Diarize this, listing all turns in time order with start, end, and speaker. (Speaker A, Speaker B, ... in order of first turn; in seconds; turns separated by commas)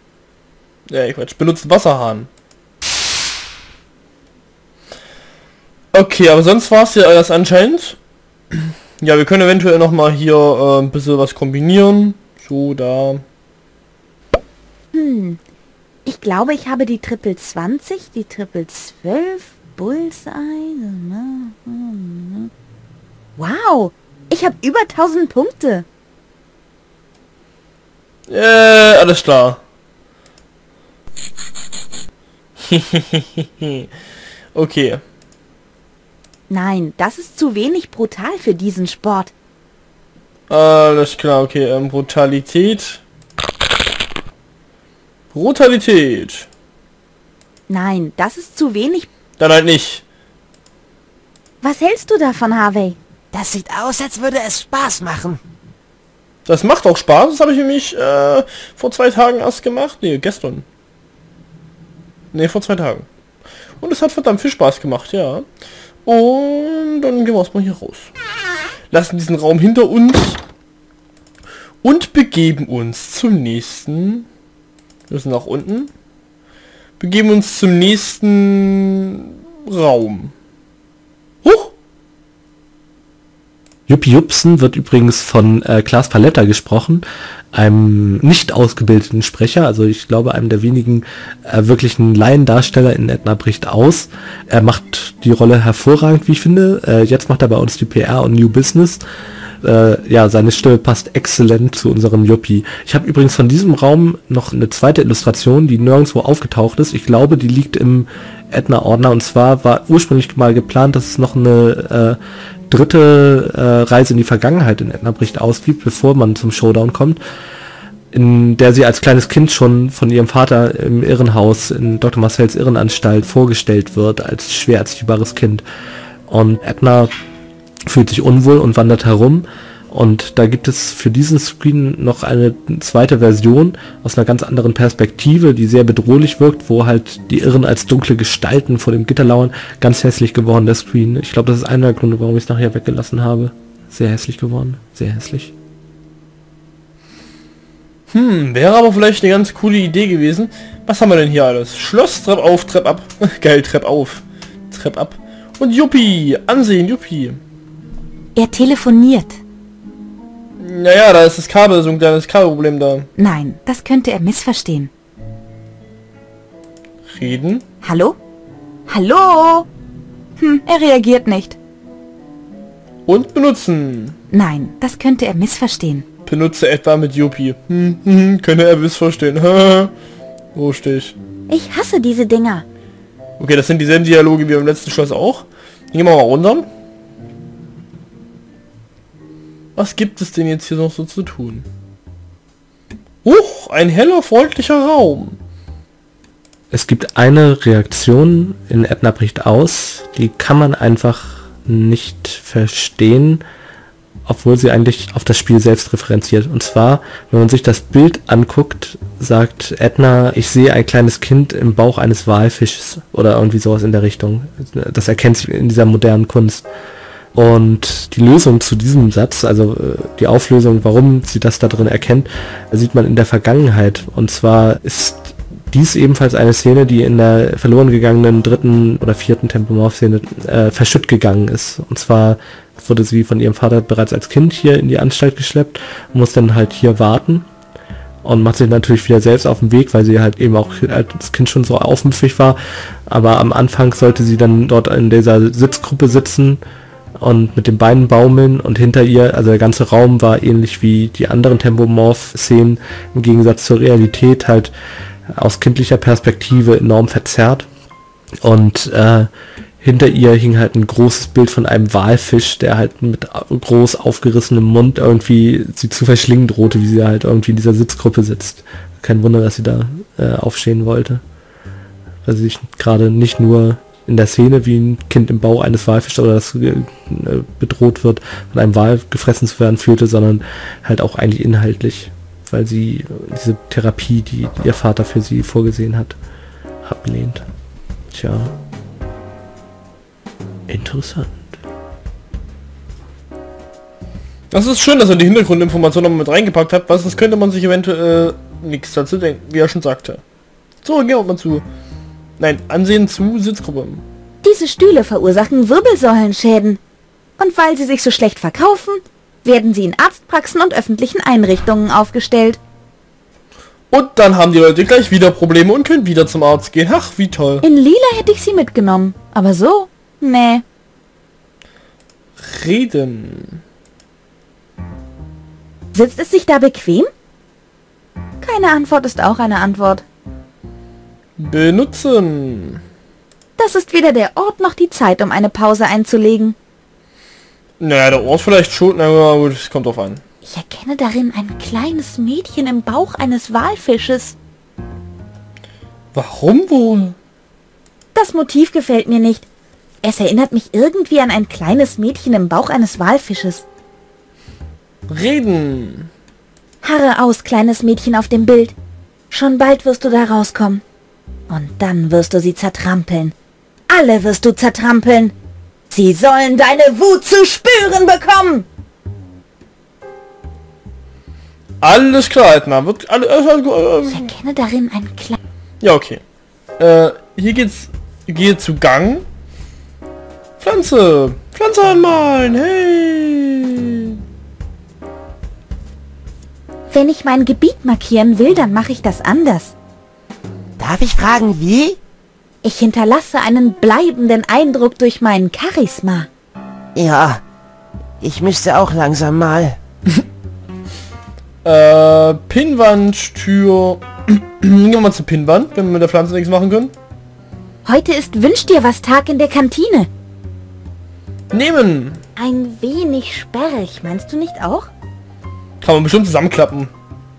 Speaker A: 0.9-2.3, Speaker A: 5.9-8.0, Speaker A: 8.5-13.2, Speaker B: 14.9-15.4, Speaker B: 16.1-22.5, Speaker B: 23.4-25.9, Speaker A: 28.3-29.6, Speaker A: 32.7-33.8, Speaker A: 34.5-35.0, Speaker B: 36.5-39.3, Speaker A: 40.5-43.0, Speaker A: 45.3-46.5, Speaker B: 47.7-49.1, Speaker A: 49.4-50.0, Speaker B: 51.6-53.0, Speaker C: 53.3-55.4, Speaker A: 56.5-60.6, Speaker A: 62.3-63.0, Speaker A: 63.8-65.4, Speaker A: 66.0-68.1, Speaker A: 68.9-70.4, Speaker A: 71.8-74.3, Speaker A: 75.1-75.9, Speaker A: 77.0-80.3, Speaker A: 81.4-81.7, Speaker D: 83.9-99.0, Speaker D: 99.6-112.2, Speaker D: 112.7-117.2, Speaker D: 118.1-125.6, Speaker D: 126.3-127.1, Speaker D: 127.9-145.5, Speaker A: 148.1-157.4, Speaker B: 158.3-159.4, Speaker A: 160.6-163.1, Speaker B: 163.2-164.9, Speaker A: 167.1-167.6, Speaker B: 167.8-168.2, Speaker B: 168.9-169.7, Speaker B: 170.4-171.6, Speaker A: 173.1-174.2, Speaker B: 174.3-176.0, Speaker A: 176.2-179.9, Speaker A: 180.5-181.1, Speaker B: 181.5-182.7, Speaker A: 183.4-186.7, Speaker A: 189.8-191.7, Speaker A: 193.2-195.4, Speaker D: 196.7-203.4, Speaker D: 204.2-216.7, Speaker D: 217.3-237.5, Speaker D: 238.2-246.6, Speaker D: 247.2-254.7, Speaker D: 255.3-257.7, Speaker D: 258.4-259.3, Speaker D: 259.8-271.2, Speaker D: 272.2-286.1, Speaker D: 286.8-287.4, Speaker D: 288.1-288.5, Speaker D: 290.7-291.4, Speaker A: 294.5-300.2, Speaker A: 300.8-301.6, Speaker A: 302.4-304.0, Speaker B: 304.4-306.8, Speaker B: 307.4-312.6, Speaker A: 313.9-317.6, Speaker B: 317.6-320.6, Speaker A: 322.4-323.6, Speaker B: 325.9-327.1, Speaker B: 328.4-330.0, Speaker A: 331.4-332.8, Speaker B: 333.6-336.6, Speaker A: 337.8-340.2, Speaker B: 340.4-344.4, Speaker A: 346.1-347.1, Speaker B: 348.1-349.4, Speaker B: 350.0-353.6, Speaker A: 355.1-356.1, Speaker B: 356.8-358.7, Speaker B: 359.3-360.8, Speaker B: 361.5-363.3, Speaker B: 363.9-365.3, Speaker B: 365.9-368.6, Speaker A: 371.8-374.3, Speaker B: 374.1-375.4, Speaker A: 375.8-376.2, Speaker A: 376.8-379.2, Speaker A: 380.6-384.2, Speaker B: 386.9-389.7, Speaker C: 390.8-392.0, Speaker B: 392.6-396.3, Speaker C: 396.9-397.4, Speaker C: 398.2-399.8, Speaker A: 401.6-406.9, Speaker B: 407.9-410.1, Speaker A: 411.5-412.2, Speaker B: 412.4-414.9, Speaker A: 415.8-416.9